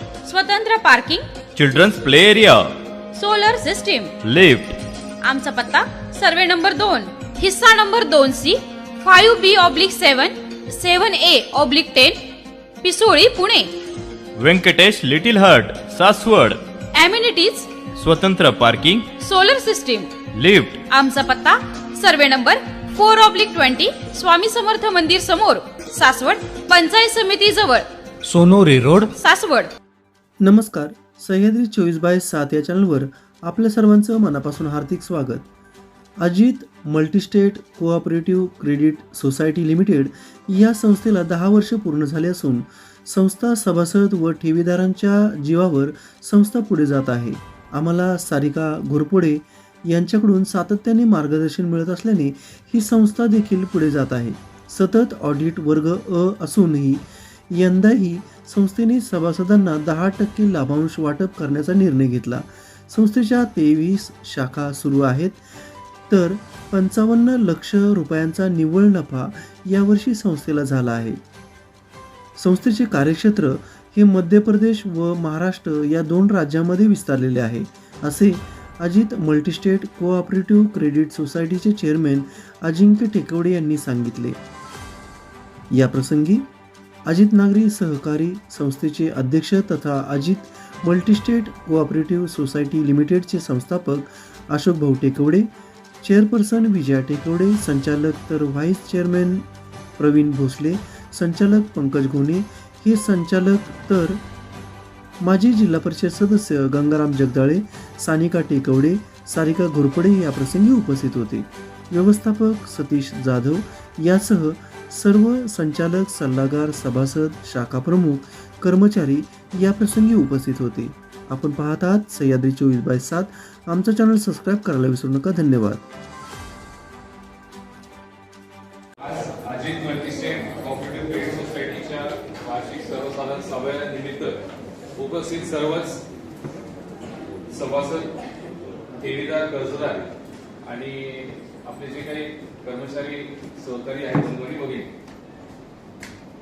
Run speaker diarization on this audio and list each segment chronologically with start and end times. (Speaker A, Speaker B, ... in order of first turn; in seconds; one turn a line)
Speaker A: 0.2-1.2
Speaker B: 1.6-2.7
Speaker A: 3.1-4.2
Speaker B: 4.2-4.8
Speaker A: 5.2-12.3
Speaker A: 12.8-13.7
Speaker B: 14.3-16.6
Speaker A: 16.9-17.9
Speaker B: 18.0-19.1
Speaker A: 19.1-20.2
Speaker B: 20.3-20.8
Speaker A: 20.8-27.9
Speaker A: 29.1-29.7
Speaker C: 30.4-35.4
Speaker C: 36.2-65.4
Speaker C: 66.1-71.2
Speaker C: 72.4-84.4
Speaker C: 85.7-86.5
Speaker C: 87.0-95.5
Speaker C: 96.0-99.4
Speaker C: 100.0-104.2
Speaker C: 105.2-125.8
Speaker D: 129.0-134.4
Speaker D: 134.9-136.0
Speaker D: 137.5-138.2
Speaker D: 138.9-140.1
Speaker D: 140.6-144.9